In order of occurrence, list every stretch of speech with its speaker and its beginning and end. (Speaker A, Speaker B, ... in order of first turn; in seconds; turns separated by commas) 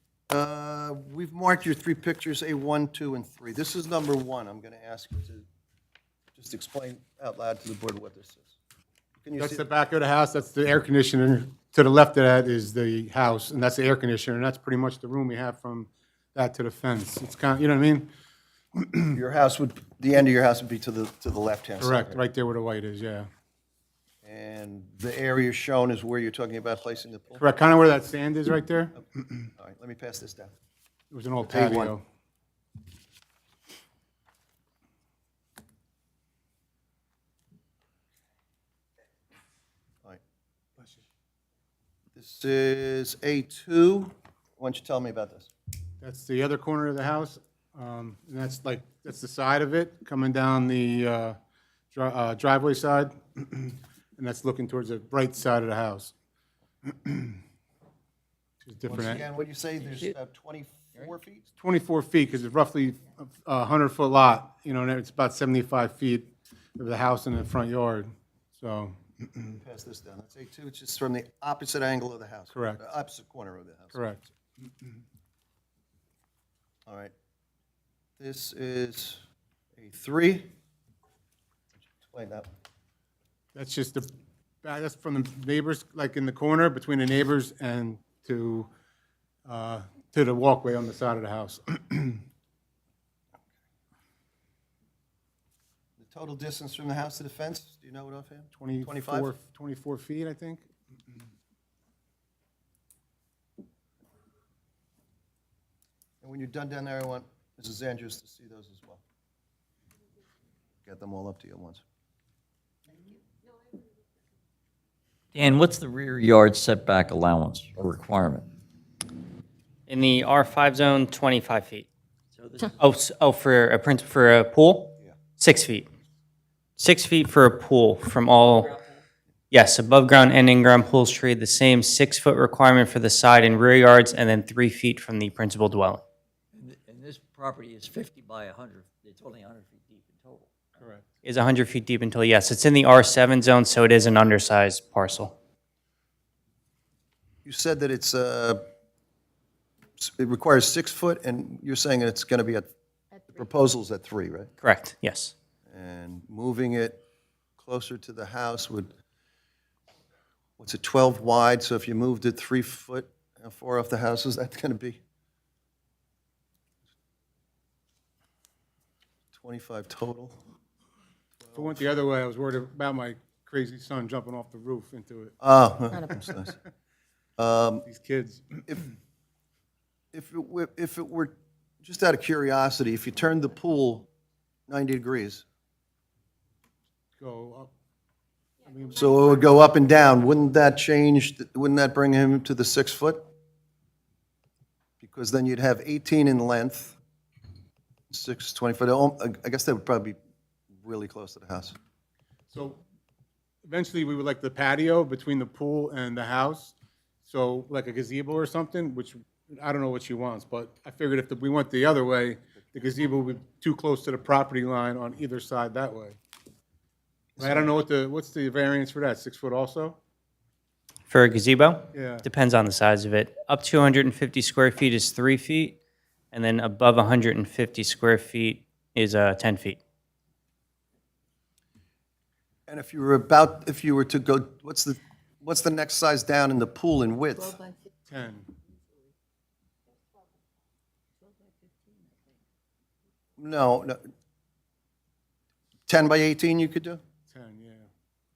Speaker A: 0.3-5.4, Speaker A: 6.4-8.6, Speaker A: 9.2-9.6, Speaker B: 9.4-18.1, Speaker B: 18.7-19.1, Speaker A: 19.1-22.2, Speaker B: 21.8-23.3, Speaker A: 24.2-27.5, Speaker B: 27.4-29.0, Speaker A: 29.6-30.5, Speaker B: 31.1-32.0, Speaker A: 31.4-31.9, Speaker A: 42.2-45.5, Speaker B: 46.0-51.4, Speaker B: 51.9-56.1, Speaker B: 56.9-57.4, Speaker B: 58.6-59.2, Speaker A: 58.9-61.5, Speaker B: 61.6-69.4, Speaker A: 69.4-74.0, Speaker B: 72.5-72.8, Speaker B: 73.9-74.3, Speaker A: 76.9-77.1, Speaker A: 78.2-79.2, Speaker A: 79.8-80.5, Speaker A: 82.0-82.5, Speaker B: 83.5-84.1, Speaker B: 84.6-88.7, Speaker B: 89.5-92.2, Speaker A: 96.0-99.3, Speaker B: 98.5-100.7, Speaker A: 106.2-109.0, Speaker A: 110.8-111.8, Speaker C: 115.3-118.5, Speaker D: 119.9-121.9, Speaker C: 122.3-122.8, Speaker D: 122.8-125.9, Speaker D: 126.8-128.8, Speaker D: 129.5-136.0, Speaker C: 136.5-140.8, Speaker B: 140.8-141.0, Speaker D: 141.2-145.3, Speaker A: 147.4-148.6, Speaker A: 150.0-152.7, Speaker A: 153.3-154.5, Speaker D: 154.6-155.3, Speaker A: 155.7-157.0, Speaker A: 157.6-158.9, Speaker A: 160.6-165.0, Speaker A: 169.3-170.4, Speaker A: 171.4-171.7, Speaker B: 171.6-175.3, Speaker A: 175.4-176.6, Speaker A: 177.4-177.8, Speaker B: 177.9-178.6, Speaker A: 180.1-184.1, Speaker A: 184.7-185.4, Speaker B: 187.2-187.7, Speaker B: 188.7-189.0, Speaker A: 188.9-193.2, Speaker A: 195.0-197.0, Speaker A: 198.1-200.2, Speaker A: 200.8-201.8, Speaker B: 202.5-202.8, Speaker B: 203.7-206.7, Speaker B: 207.2-216.2, Speaker A: 217.4-217.7, Speaker B: 217.4-220.0, Speaker D: 221.1-225.8, Speaker B: 221.9-222.3, Speaker D: 226.3-229.8, Speaker A: 232.7-237.6, Speaker B: 238.1-238.5, Speaker C: 241.2-242.2, Speaker A: 243.4-244.0, Speaker A: 245.9-247.0, Speaker B: 247.3-247.9